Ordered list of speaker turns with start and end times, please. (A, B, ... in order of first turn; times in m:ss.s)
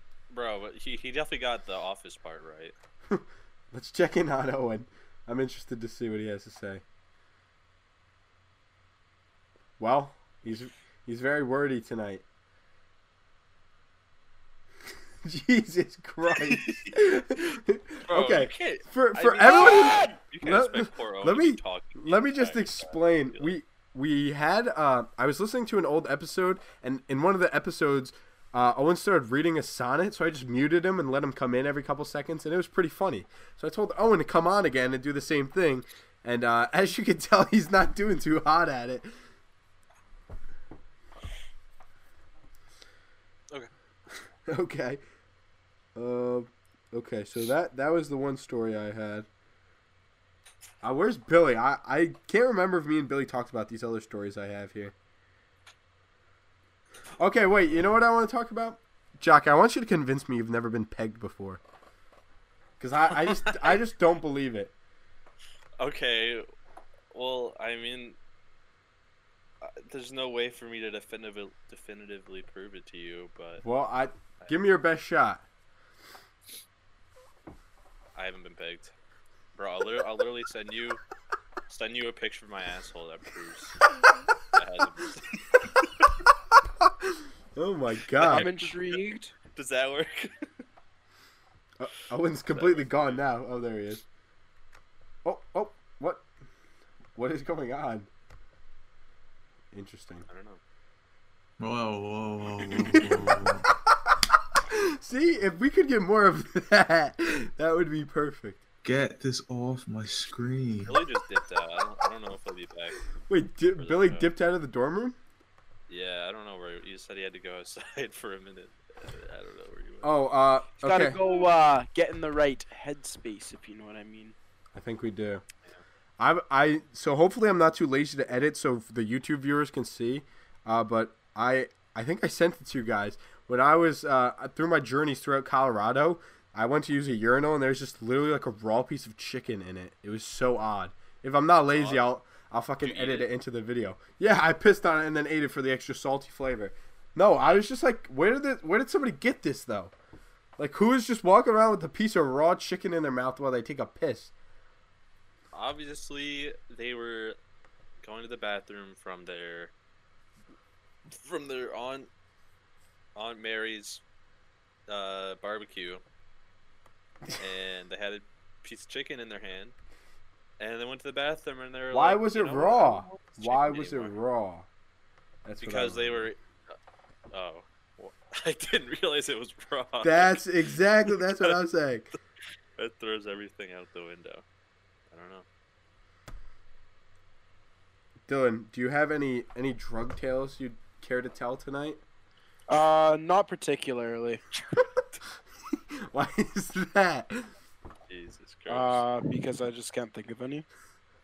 0:00.3-0:02.7 A
0:03.1-0:06.8 B
0:09.8-0:12.2 B
0:15.2-0:39.1 B
0:18.1-0:23.5 A
0:19.4-0:20.2 C
0:44.5-0:45.0 B
0:46.0-0:49.3 B
0:50.8-0:55.0 B
0:57.2-1:01.6 B
1:02.8-1:04.7 B
1:03.3-1:03.7 A
1:05.8-1:06.4 A
1:07.1-1:08.2 A
1:09.6-1:13.6 A
1:13.6-1:15.4 B
1:18.2-1:18.9 A
1:19.6-1:21.0 A
1:21.7-1:23.8 A
1:24.4-1:26.1 A
1:26.8-1:28.5 B
1:28.2-1:29.0 A
1:28.2-1:29.3 C
1:29.5-1:30.5 A
1:31.8-1:34.0 B
1:32.5-1:33.2 A
1:35.2-1:36.2 B
1:37.2-1:38.1 B
1:39.7-1:40.3 B
1:40.3-1:40.6 A
1:41.6-1:43.7 D
1:42.7-1:43.5 B
1:44.7-1:48.6 B
1:48.8-1:51.0 D
1:50.8-1:53.0 A
1:53.3-1:55.2 B
1:53.8-1:54.3 A
1:55.9-2:00.1 A
2:00.0-2:01.2 B
2:00.8-2:04.4 C
2:04.8-2:05.4 B
2:06.2-2:29.9 B
2:21.7-2:22.0 A
2:22.8-2:23.3 A
2:30.6-2:34.3 B
2:35.5-2:37.4 A
2:38.0-2:39.7 A
2:41.1-2:42.1 A
2:43.2-2:44.0 A
2:44.9-2:46.0 A
2:47.4-2:49.7 A
2:50.6-2:54.2 A
2:51.9-2:54.7 B
2:55.4-2:56.3 B
2:55.6-2:56.4 A
2:57.3-3:00.4 A
3:00.0-3:02.1 B
3:01.1-3:01.5 A
3:02.8-3:04.4 A
3:05.1-3:05.4 A
3:08.3-3:12.0 B
3:12.7-3:14.4 C
3:15.7-3:17.5 B
3:18.1-3:19.0 A
3:18.7-3:20.7 C